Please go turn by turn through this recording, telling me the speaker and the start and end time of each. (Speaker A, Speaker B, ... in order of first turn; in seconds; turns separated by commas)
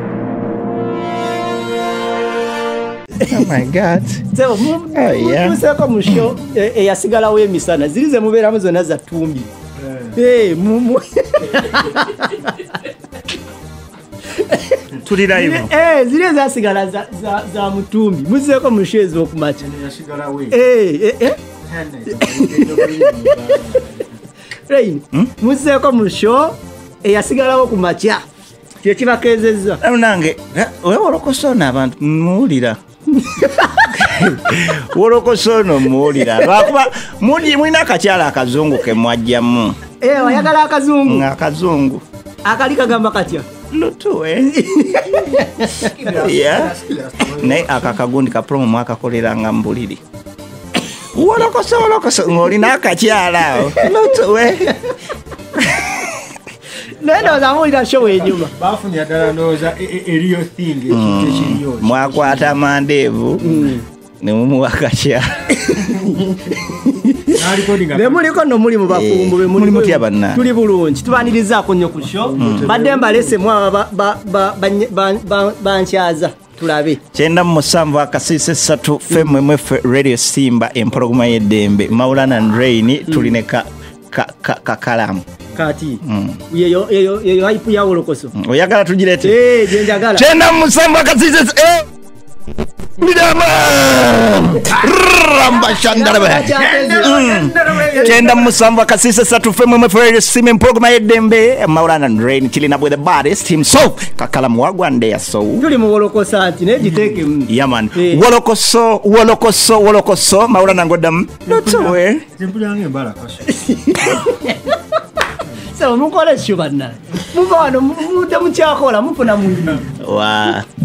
Speaker A: 3.2-4.3, Speaker B: 4.3-9.5, Speaker A: 5.0-5.6, Speaker C: 9.8-10.2, Speaker B: 10.2-12.9, Speaker B: 14.3-19.6, Speaker A: 15.0-15.7, Speaker C: 19.6-20.6, Speaker B: 20.5-21.4, Speaker C: 21.7-24.2, Speaker B: 22.1-23.3, Speaker B: 24.7-28.2, Speaker B: 28.8-29.8, Speaker A: 29.8-32.8, Speaker B: 33.2-34.0, Speaker A: 33.9-39.8, Speaker B: 36.3-36.6, Speaker B: 40.0-41.3, Speaker A: 41.1-42.0, Speaker B: 42.5-43.5, Speaker A: 43.7-45.4, Speaker B: 44.6-45.9, Speaker C: 45.8-48.0, Speaker A: 46.2-46.7, Speaker A: 47.4-50.0, Speaker A: 51.1-54.8, Speaker A: 55.7-56.1, Speaker B: 56.8-58.5, Speaker C: 57.1-62.6, Speaker A: 60.9-65.5, Speaker B: 63.4-63.8, Speaker B: 65.5-77.0, Speaker C: 66.2-66.7, Speaker C: 67.3-68.3, Speaker A: 68.9-70.4, Speaker C: 72.2-73.4, Speaker A: 72.4-72.7, Speaker A: 77.1-85.2, Speaker B: 83.1-83.4, Speaker B: 85.6-88.3, Speaker A: 86.0-86.4, Speaker A: 88.3-91.8, Speaker B: 89.2-90.3, Speaker A: 93.0-105.6, Speaker B: 95.6-97.2, Speaker C: 96.5-98.7, Speaker B: 97.9-98.3, Speaker B: 105.6-108.2, Speaker C: 106.8-107.3, Speaker A: 107.5-112.2, Speaker C: 111.5-113.5, Speaker B: 113.5-114.8, Speaker B: 115.6-119.9, Speaker C: 119.6-119.9, Speaker A: 120.0-120.7